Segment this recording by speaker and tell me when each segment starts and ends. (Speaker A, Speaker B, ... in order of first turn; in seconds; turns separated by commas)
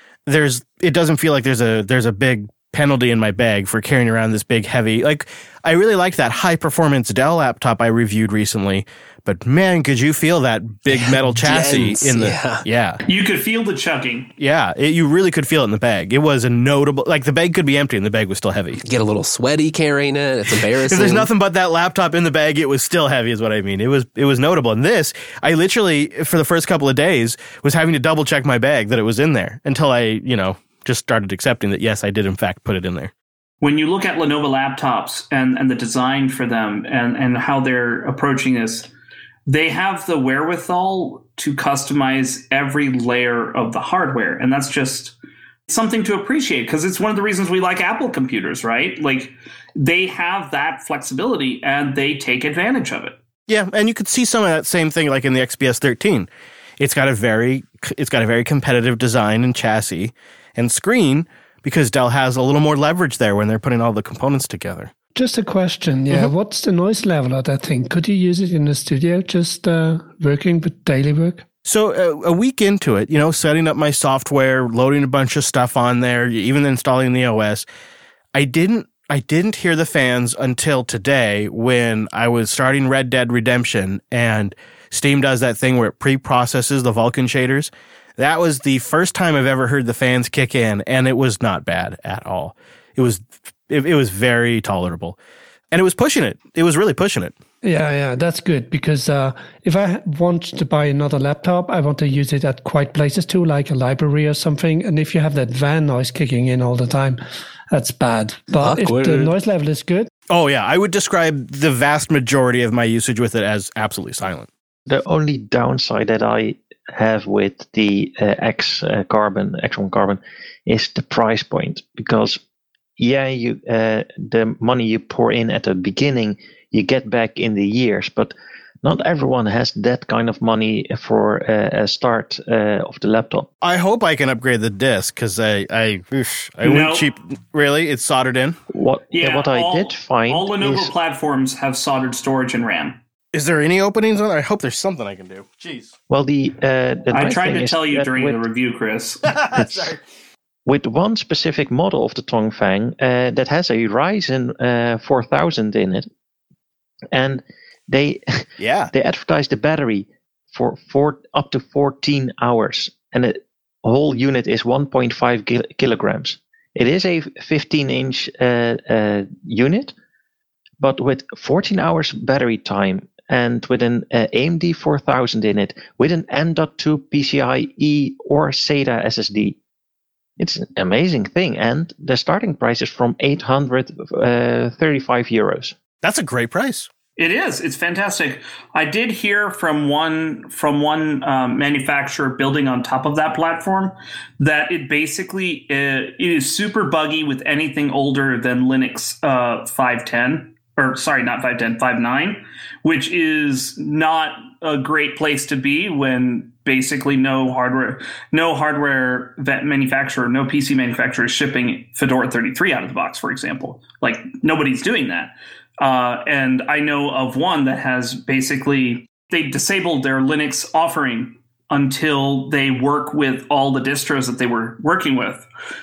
Speaker A: 0.3-13.0, Speaker B: 10.9-12.7, Speaker C: 13.1-14.3, Speaker A: 14.4-18.8, Speaker B: 18.8-21.3, Speaker A: 20.9-33.1, Speaker C: 33.6-38.9, Speaker C: 39.5-45.1, Speaker C: 45.7-53.2, Speaker A: 53.5-56.3, Speaker A: 56.8-64.9, Speaker D: 65.2-71.4, Speaker A: 71.7-77.7, Speaker A: 78.3-95.2, Speaker A: 95.7-97.4, Speaker D: 97.6-107.2, Speaker D: 107.7-110.1, Speaker B: 108.5-109.3, Speaker A: 110.3-114.5, Speaker E: 114.9-122.4, Speaker E: 123.0-133.5, Speaker A: 133.6-138.6, Speaker C: 136.6-137.1, Speaker E: 138.7-140.9, Speaker C: 139.1-143.0, Speaker A: 143.3-145.9, Speaker E: 146.1-148.4, Speaker C: 147.1-149.4, Speaker A: 149.3-150.0, Speaker E: 149.5-149.9, Speaker E: 150.7-156.1, Speaker E: 157.1-169.9, Speaker A: 158.6-158.9, Speaker E: 170.8-179.6, Speaker E: 180.4-185.8, Speaker A: 186.0-186.9, Speaker C: 187.2-225.5